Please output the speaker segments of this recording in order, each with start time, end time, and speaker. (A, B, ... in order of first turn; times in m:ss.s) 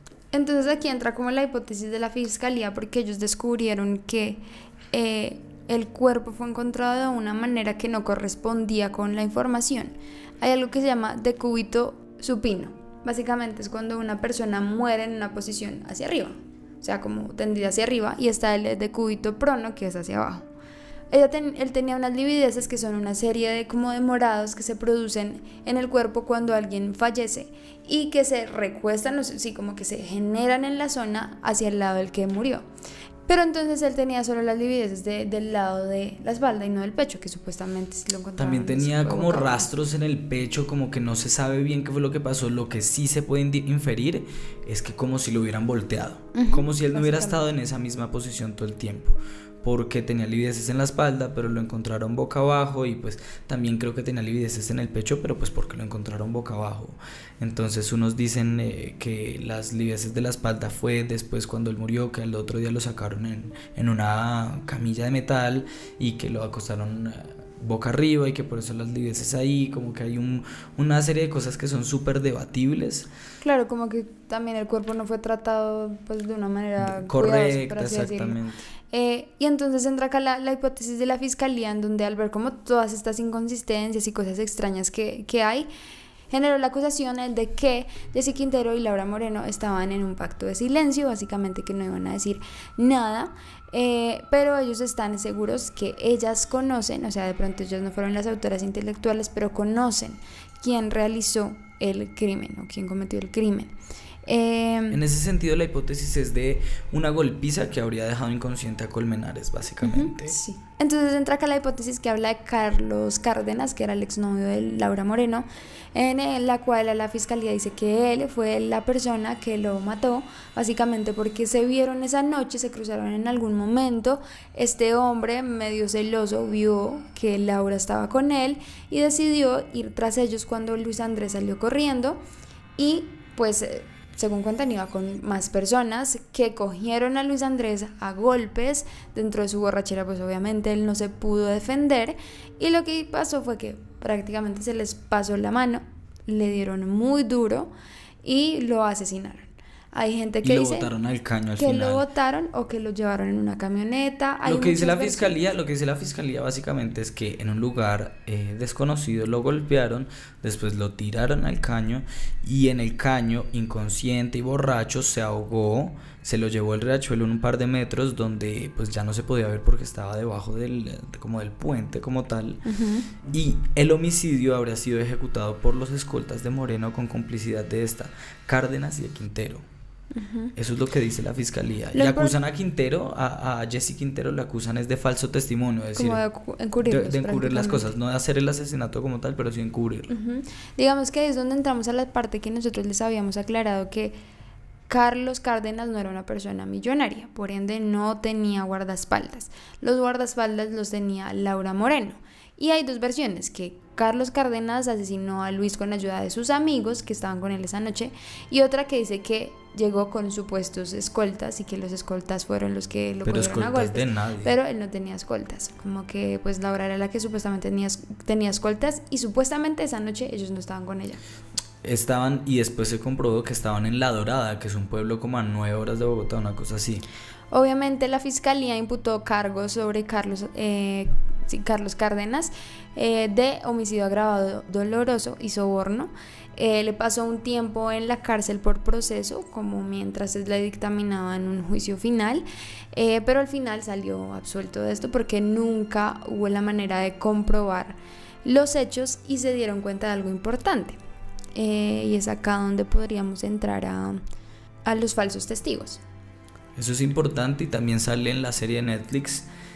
0:00.3-0:04.4 A
0:04.9-0:20.4 A
0:21.1-0:32.6 A
0:33.3-0:39.7 A
0:38.4-1:13.1 B
0:46.3-0:47.4 A
1:13.4-1:18.4 A
1:16.8-1:18.6 B
1:18.9-1:25.7 A
1:26.3-1:43.7 A
1:44.2-1:45.0 A
1:44.9-1:50.3 B
1:49.8-2:12.2 A
2:12.8-2:27.7 A
2:28.2-2:30.9 A
2:30.4-2:32.0 B
2:31.6-2:35.4 A
2:34.4-2:52.6 B
2:52.6-2:53.1 A
2:53.3-2:59.6 B
3:00.1-3:00.5 A
3:00.6-3:06.2 B
3:01.9-3:02.4 A
3:06.0-3:07.9 A
3:06.8-3:10.1 B
3:10.1-3:14.1 A
3:14.9-3:41.2 A
3:33.2-3:34.5 B
3:41.8-3:47.0 B
3:47.5-4:11.0 A
4:11.5-4:14.2 A
4:14.8-4:16.0 A
4:16.8-4:19.5 B